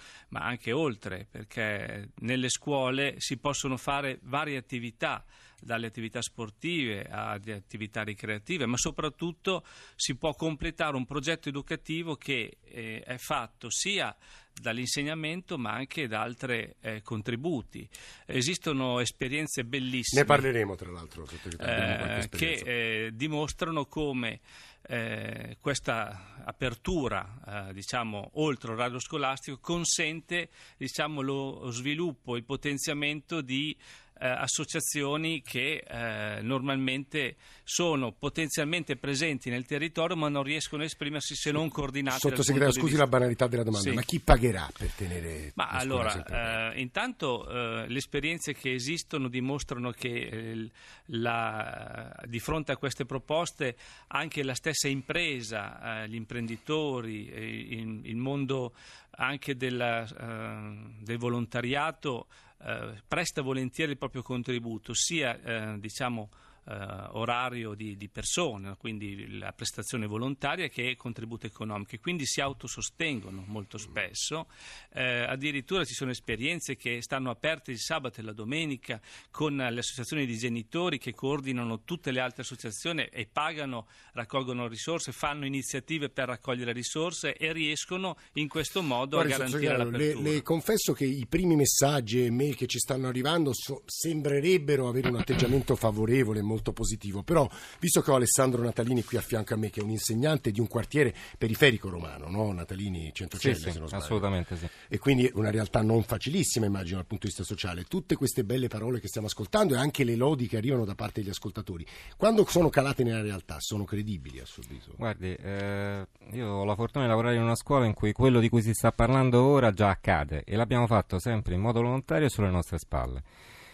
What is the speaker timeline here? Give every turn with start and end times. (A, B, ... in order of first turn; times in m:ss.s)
0:00.3-0:20.5 A
0:20.1-0:22.7 B
0:21.6-0:43.1 A
0:42.1-0:46.6 B
0:43.7-0:44.1 A
0:45.6-1:30.4 A
1:29.1-1:44.3 B
1:43.3-1:44.7 C
1:44.9-1:55.0 B
1:55.0-2:03.2 C